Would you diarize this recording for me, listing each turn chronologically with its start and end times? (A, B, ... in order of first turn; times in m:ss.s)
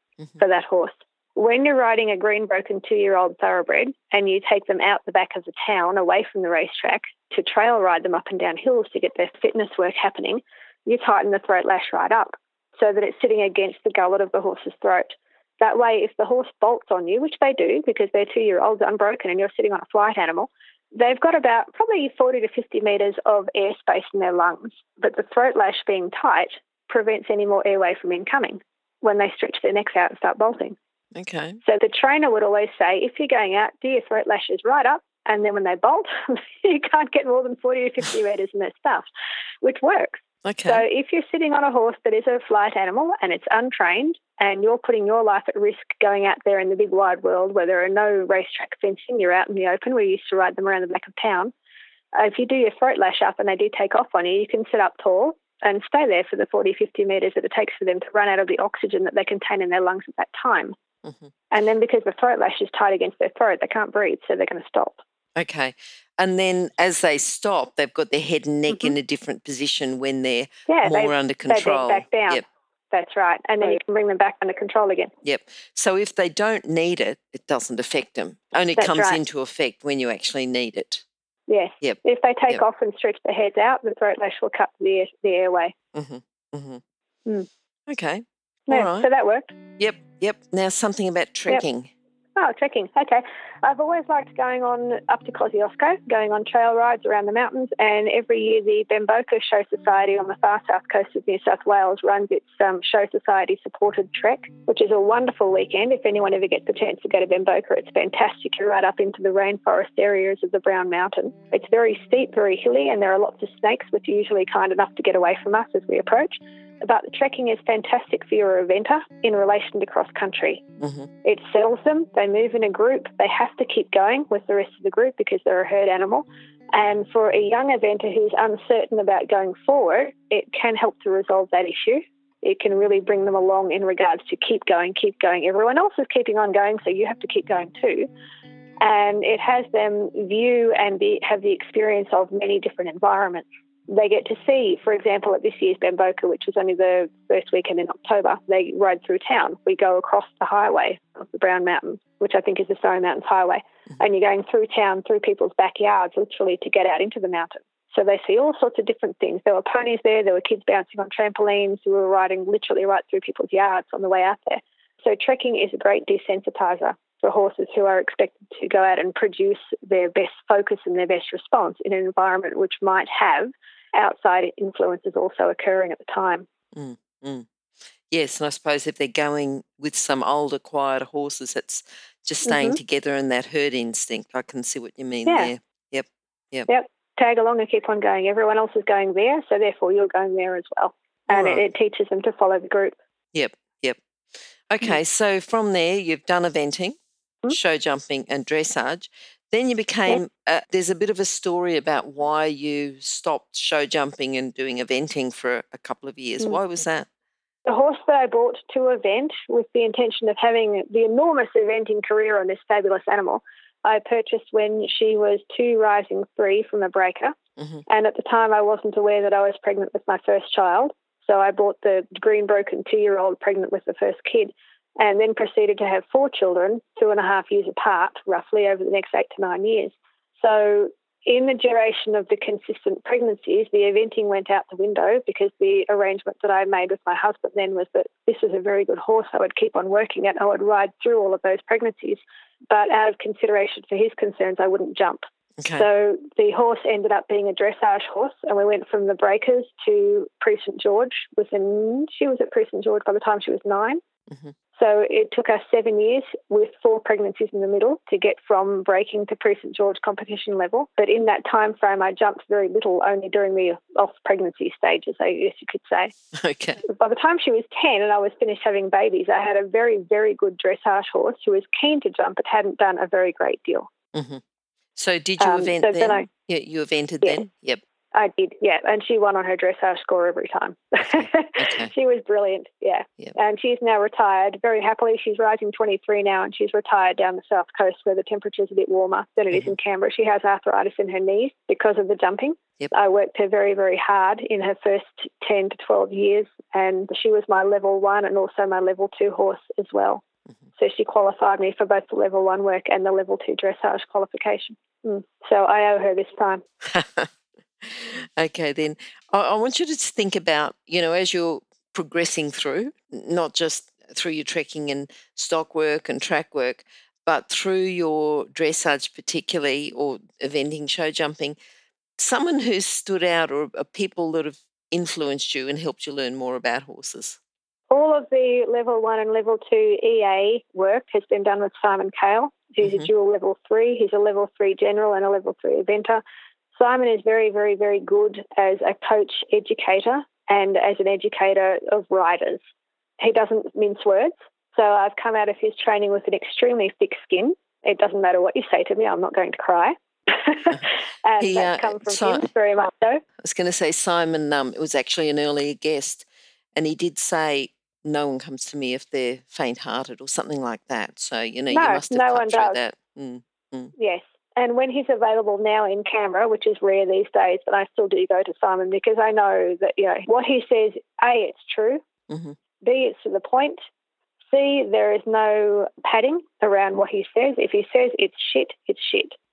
0:00.4-0:30.8 A
0:31.1-0:31.6 B
0:31.6-0:39.1 A
0:39.6-0:51.5 A
0:40.4-0:40.8 B
0:52.1-1:00.8 A
1:01.0-1:01.3 B
1:01.5-1:05.0 A
1:05.4-1:12.4 B
1:08.7-1:08.9 A
1:10.7-1:15.1 A
1:15.2-1:21.0 B
1:18.8-1:19.2 A
1:21.5-1:25.7 A
1:21.8-1:22.6 B
1:25.9-1:26.8 B
1:27.9-1:29.1 B
1:28.7-1:29.5 A
1:29.8-1:31.9 B
1:32.4-2:00.7 A
2:00.8-2:01.1 B
2:01.2-2:18.1 A
2:18.8-2:56.5 A
2:56.7-2:57.5 B
2:58.1-3:06.7 B
3:02.5-3:02.8 A
3:05.3-3:05.5 A
3:06.7-3:13.0 A
3:11.3-3:11.6 B
3:13.3-3:14.0 B
3:14.7-3:17.0 B
3:17.5-3:27.1 B
3:27.7-3:37.4 A
3:37.6-3:37.8 B
3:37.9-4:14.0 A
4:05.6-4:05.9 B
4:14.3-4:14.5 B
4:14.8-4:26.1 A
4:26.3-4:26.8 B
4:26.8-4:33.9 A
4:34.1-4:34.4 B
4:35.0-4:37.8 B
4:35.4-4:36.3 A
4:38.1-5:00.2 A
4:41.0-4:41.9 B
5:00.8-5:06.6 A
5:06.8-5:21.6 B
5:22.2-5:27.4 B
5:27.9-5:36.2 A
5:32.8-5:33.1 B
5:36.7-5:42.6 A
5:43.2-5:53.2 A
5:51.4-5:52.5 B
5:53.4-6:03.9 B
6:01.7-6:02.8 A
6:04.0-6:12.0 A
6:12.3-6:12.6 B
6:12.8-6:13.8 A
6:14.5-6:19.4 A